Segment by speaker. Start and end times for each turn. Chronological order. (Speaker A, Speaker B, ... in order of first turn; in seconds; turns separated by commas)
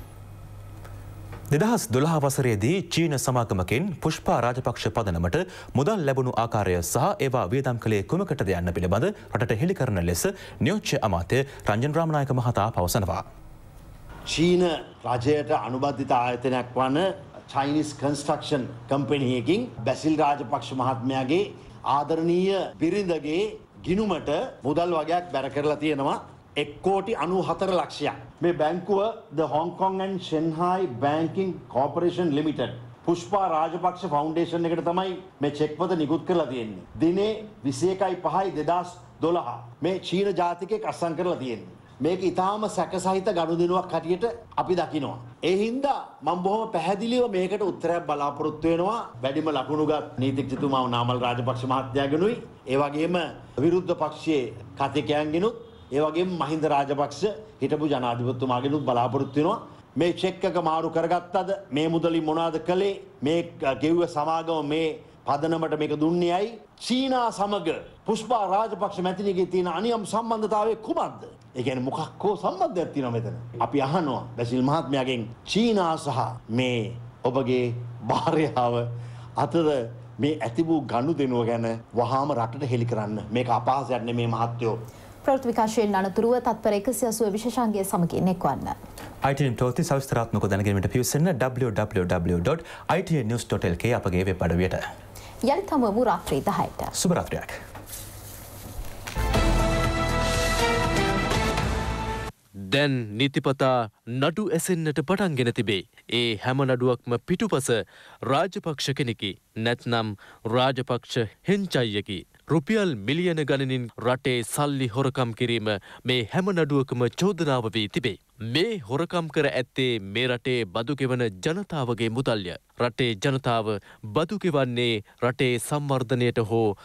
Speaker A: 1.5-13.2, Speaker B: 14.3-84.8, Speaker C: 85.2-88.7, Speaker A: 89.2-94.8, Speaker C: 95.5-96.9, Speaker A: 97.0-97.6, Speaker D: 102.7-126.7